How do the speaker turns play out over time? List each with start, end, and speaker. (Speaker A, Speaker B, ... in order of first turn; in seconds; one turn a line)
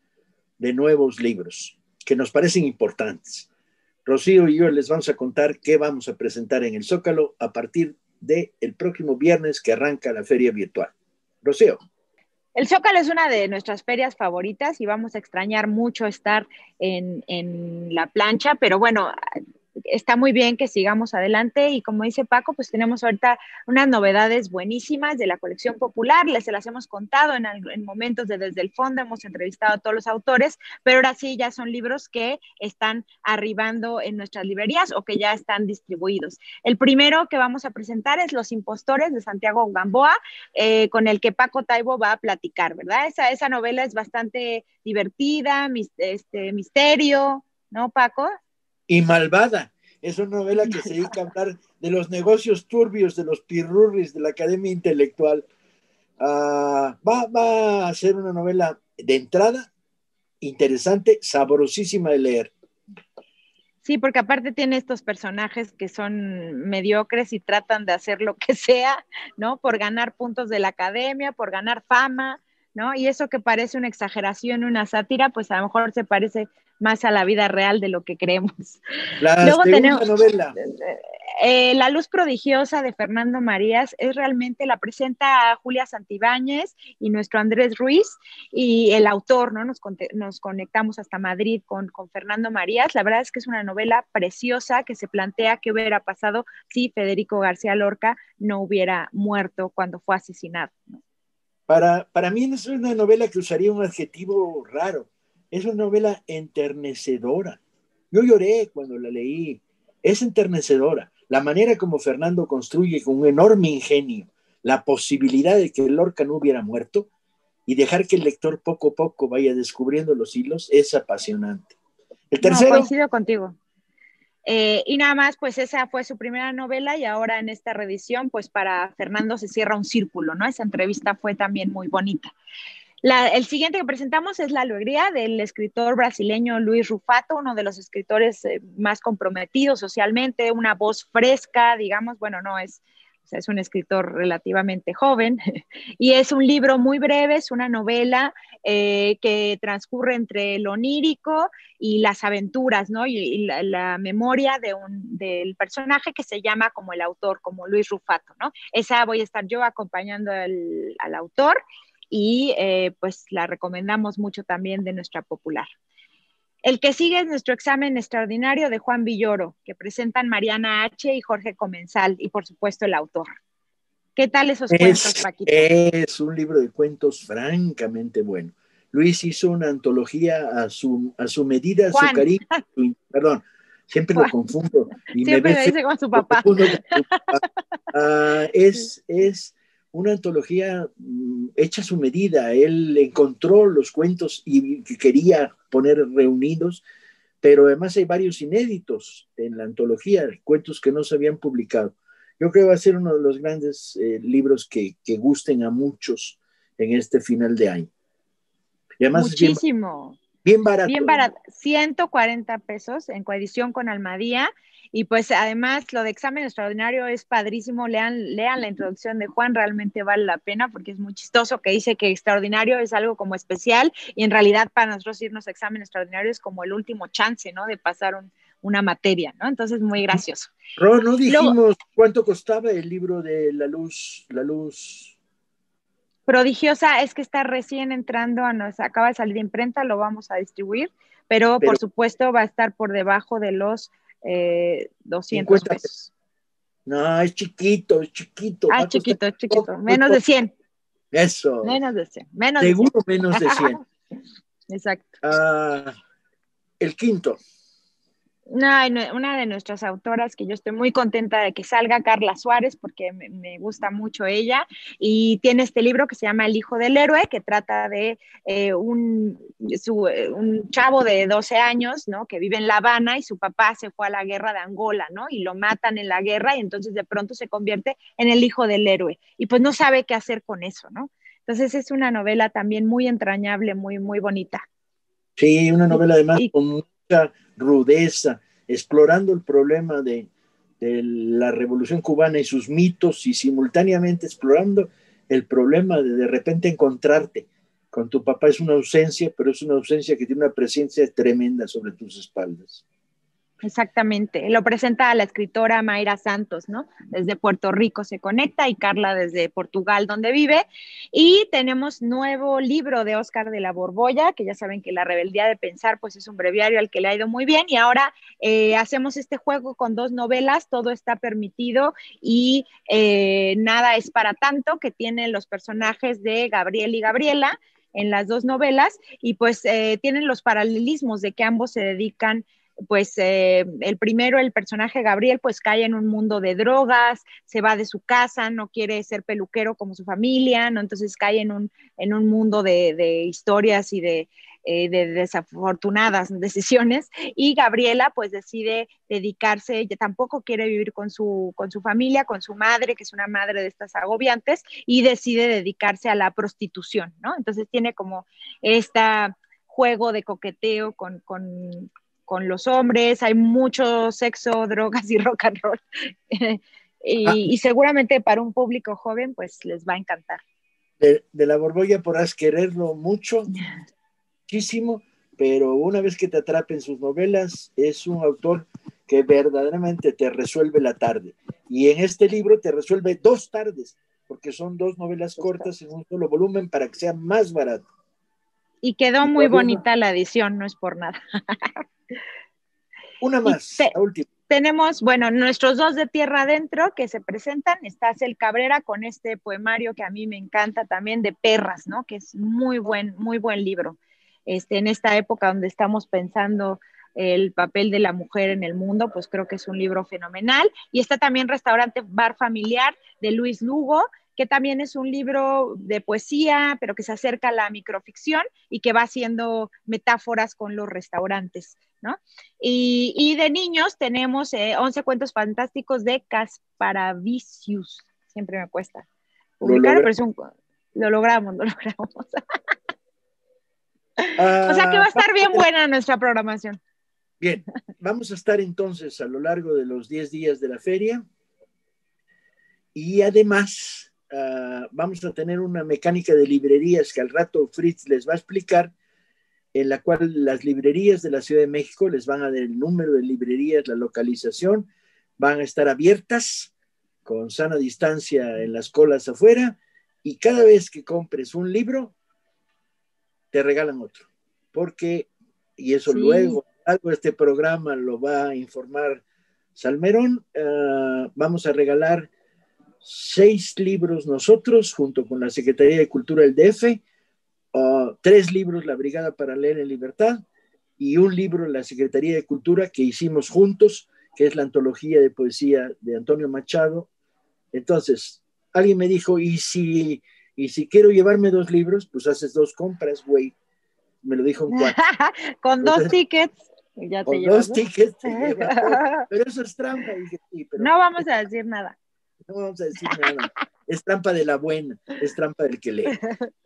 Speaker A: 0.6-3.5
Speaker A: 4.1-10.9
Speaker A: 11.4-11.8
Speaker B: 12.6-19.1
Speaker B: 19.9-48.3
Speaker A: 48.9-55.5
Speaker A: 56.2-59.7
Speaker A: 60.4-62.5
Speaker B: 63.8-78.8
Speaker A: 79.2-80.5
Speaker B: 79.4-80.1
Speaker B: 80.6-101.0
Speaker A: 101.7-107.6
Speaker A: 108.1-117.1
Speaker A: 117.7-121.8
Speaker A: 122.3-122.9
Speaker B: 122.4-123.6
Speaker B: 124.5-132.3
Speaker B: 133.0-145.4
Speaker B: 146.0-161.6
Speaker B: 162.1-165.7
Speaker B: 166.6-173.3
Speaker B: 174.2-175.7
Speaker A: 174.7-187.4
Speaker B: 181.9-182.4
Speaker B: 185.2-187.3
Speaker A: 187.9-196.8
Speaker A: 197.4-207.9
Speaker A: 209.0-209.6
Speaker B: 209.1-210.2
Speaker A: 210.4-211.3
Speaker B: 210.9-230.6
Speaker A: 230.8-235.2
Speaker B: 231.3-231.6
Speaker B: 236.3-246.1
Speaker A: 245.3-245.9
Speaker A: 246.9-250.2
Speaker B: 248.7-250.5
Speaker A: 251.1-251.8
Speaker B: 251.6-253.8
Speaker A: 252.6-253.8
Speaker B: 254.7-255.2
Speaker A: 255.2-255.9
Speaker A: 256.8-257.4
Speaker B: 258.5-284.6
Speaker A: 285.4-290.3
Speaker B: 285.9-286.5
Speaker A: 290.8-302.8
Speaker B: 303.6-370.4
Speaker A: 371.0-373.5
Speaker A: 374.5-387.9
Speaker B: 385.4-385.7
Speaker B: 388.8-391.8
Speaker A: 389.2-389.8
Speaker A: 393.2-394.3
Speaker B: 393.4-393.9
Speaker B: 394.5-429.1
Speaker B: 429.6-432.4
Speaker A: 429.6-430.1
Speaker B: 434.2-436.8
Speaker A: 434.4-435.7
Speaker A: 437.4-441.2
Speaker A: 442.9-448.9
Speaker A: 449.7-456.7
Speaker A: 457.2-462.1
Speaker A: 463.5-469.2
Speaker B: 466.1-466.6
Speaker A: 469.8-472.3
Speaker A: 473.0-477.0
Speaker A: 477.7-480.4
Speaker A: 481.0-487.1
Speaker A: 487.7-493.5
Speaker A: 494.2-495.0
Speaker B: 494.7-499.3
Speaker A: 495.8-496.2
Speaker A: 497.3-501.3
Speaker B: 500.8-502.0
Speaker A: 502.5-506.2
Speaker B: 503.0-503.4
Speaker B: 506.2-506.5